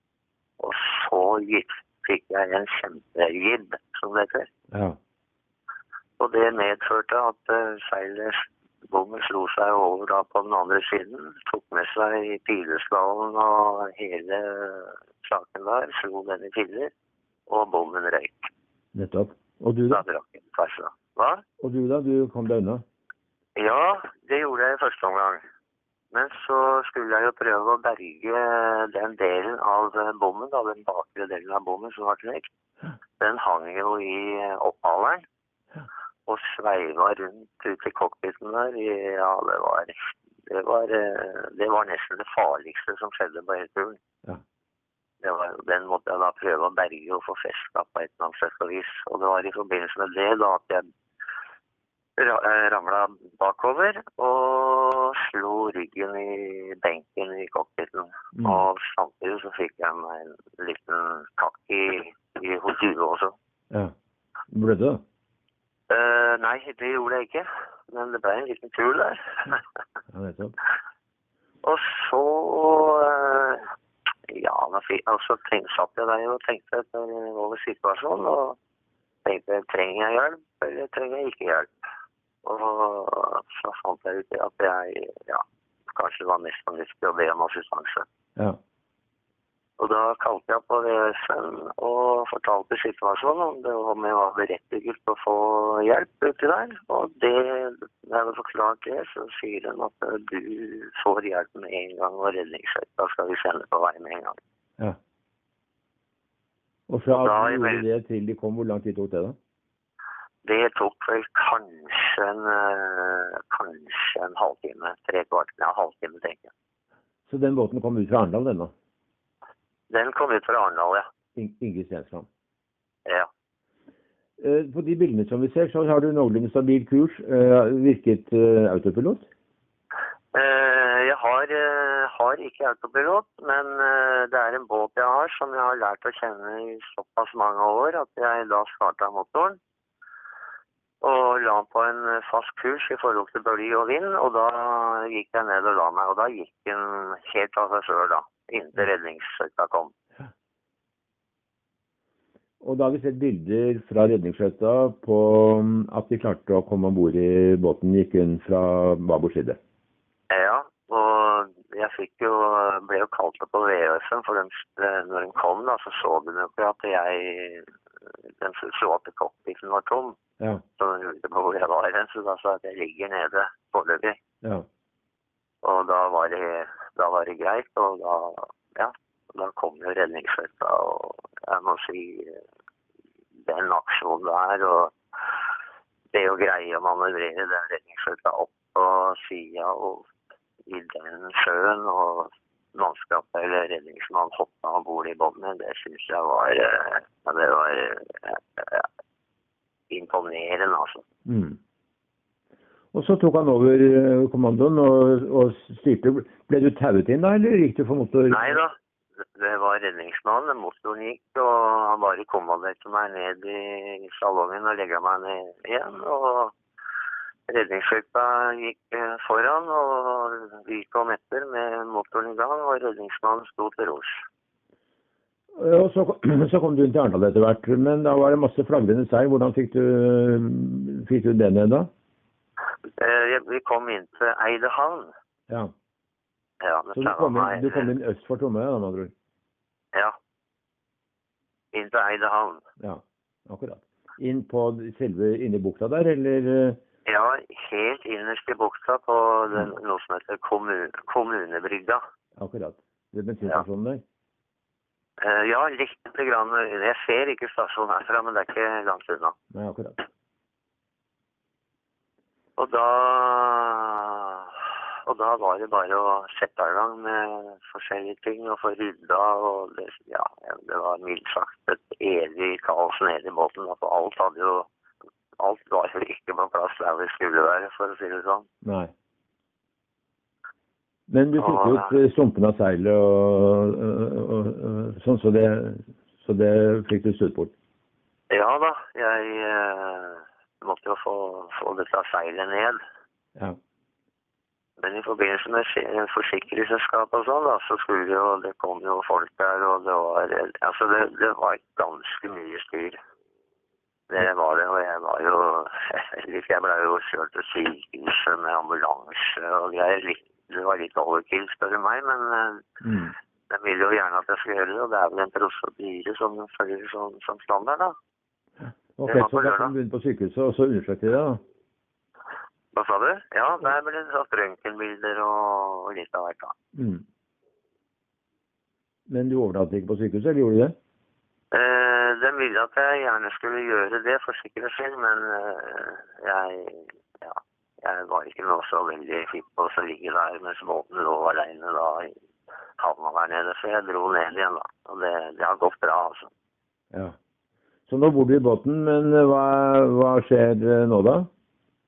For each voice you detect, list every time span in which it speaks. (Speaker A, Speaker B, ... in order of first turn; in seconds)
Speaker A: 0.6-4.5, 6.2-16.9, 17.5-18.5, 19.9-21.4, 23.6-25.4, 26.1-32.5, 33.2-35.2, 36.3-44.0, 45.2-50.8, 52.2-63.4, 65.9-69.6, 71.6-73.7, 74.3-78.6, 79.2-81.7, 82.4-85.4, 85.9-88.0, 89.8-104.4, 107.1-107.9, 110.4-116.5, 119.9-121.1, 130.3-139.6, 141.0-149.9, 160.3-167.7, 168.4-170.2, 170.8-174.2, 175.6-182.4, 183.5-184.9, 186.1-190.1, 190.7-198.9, 199.9-201.1, 208.3-208.7, 209.3-216.5, 217.5-224.2, 233.0-235.1, 236.6-237.9, 241.7-242.6, 247.1-252.0, 255.2-259.4, 262.6-274.7, 275.4-278.5, 281.4-281.9, 288.3-292.8, 294.8-303.0, 304.1-312.7, 313.5-317.9, 319.1-319.7, 322.7-326.6, 331.5-342.1, 342.8-346.3
Speaker B: 4.7-5.0, 18.9-20.0, 21.6-22.8, 58.4-58.7, 64.5-65.0, 70.1-70.6, 106.9-109.4, 117.3-118.7, 121.4-122.3, 124.4-129.3, 152.6-159.6, 201.3-201.6, 202.9-208.6, 225.6-231.9, 236.9-239.1, 242.8-246.8, 252.4-254.0, 259.5-260.0, 278.6-278.9, 281.1-287.5, 312.8-313.1, 319.0-321.4, 326.8-327.0, 329.1-330.7, 347.9-351.3